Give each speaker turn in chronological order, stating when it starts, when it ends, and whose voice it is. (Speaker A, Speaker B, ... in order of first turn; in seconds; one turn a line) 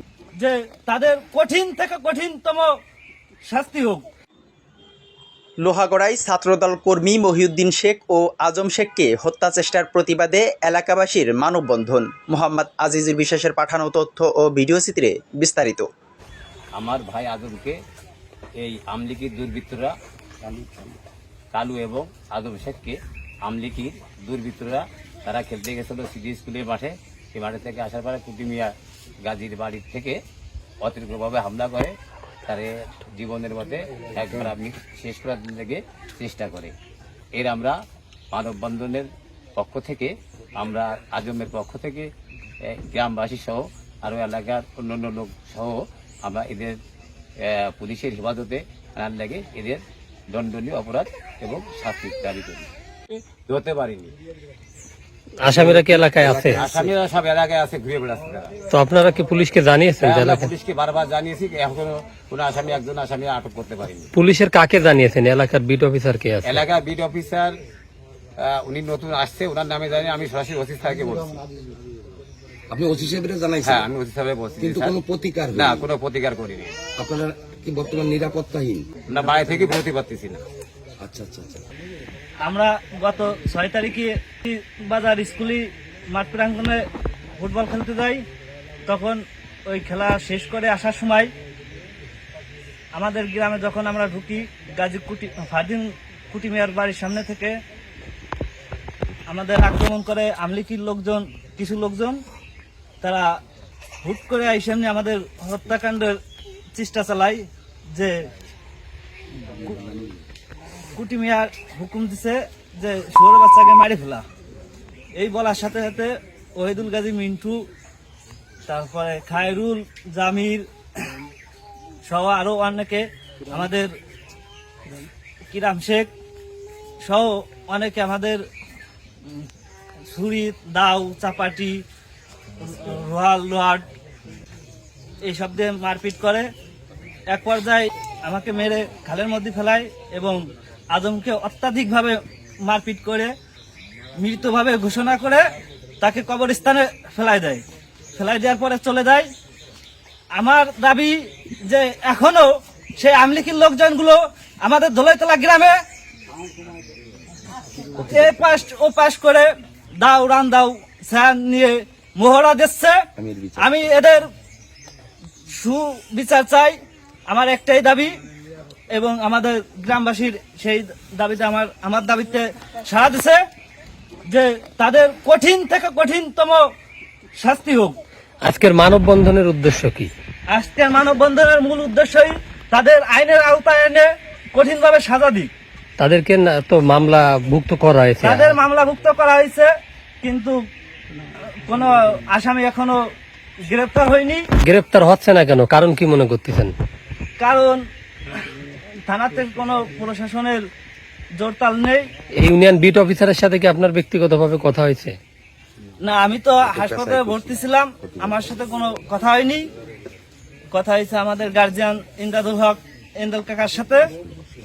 Speaker A: 0.4-2.7
Speaker A: 3.5-4.1
Speaker B: 5.6-15.9
Speaker C: 16.8-17.8
Speaker C: 18.6-19.9
Speaker D: 20.4-20.9
Speaker C: 21.5-30.2
Speaker C: 30.8-31.9
Speaker C: 32.5-36.7
Speaker C: 37.4-37.8
Speaker C: 38.3-42.1
Speaker C: 42.6-46.8
Speaker C: 47.4-54.1
Speaker E: 55.4-56.6
Speaker D: 55.5-57.0
Speaker C: 56.6-58.5
Speaker E: 58.7-60.5
Speaker C: 60.0-64.1
Speaker E: 64.1-66.6
Speaker C: 66.5-67.5
Speaker C: 68.4-71.4
Speaker D: 72.7-73.9
Speaker C: 73.6-75.0
Speaker D: 74.6-75.9
Speaker C: 75.5-76.8
Speaker D: 77.0-78.9
Speaker C: 79.1-80.4
Speaker D: 81.0-81.7
Speaker A: 82.4-86.8
Speaker A: 87.4-88.2
Speaker A: 88.9-91.3
Speaker A: 93.0-97.6
Speaker A: 99.3-102.2
Speaker A: 103.0-103.3
Speaker A: 104.0-106.2
Speaker A: 106.7-108.2
Speaker A: 111.0-114.2
Speaker A: 115.2-117.6
Speaker A: 118.7-120.7
Speaker A: 122.1-123.9
Speaker A: 125.5-126.1
Speaker A: 127.0-128.4
Speaker A: 130.1-131.8
Speaker A: 132.6-133.9
Speaker A: 135.2-136.5
Speaker A: 137.3-140.4
Speaker A: 140.9-143.3
Speaker A: 144.2-145.4
Speaker A: 146.0-147.6
Speaker A: 148.2-149.3
Speaker A: 150.3-155.8
Speaker D: 158.0-158.5
Speaker A: 158.0-159.5
Speaker A: 160.0-163.0
Speaker D: 163.2-163.8
Speaker A: 163.6-164.2
Speaker A: 165.5-166.8
Speaker A: 167.3-168.2
Speaker A: 168.9-173.4
Speaker A: 174.3-176.6
Speaker A: 177.4-178.0
Speaker E: 178.4-180.1
Speaker A: 180.5-185.5
Speaker E: 186.0-188.6
Speaker A: 188.2-189.7
Speaker A: 190.2-190.6
Speaker A: 191.6-193.0
Speaker A: 193.7-194.4
Speaker E: 194.6-196.7
Speaker A: 197.4-197.8
Speaker A: 199.1-200.7
Speaker A: 201.4-202.1
Speaker E: 202.4-205.2
Speaker A: 206.0-209.7
Speaker D: 206.7-207.5
Speaker D: 208.0-208.3
Speaker A: 210.7-214.1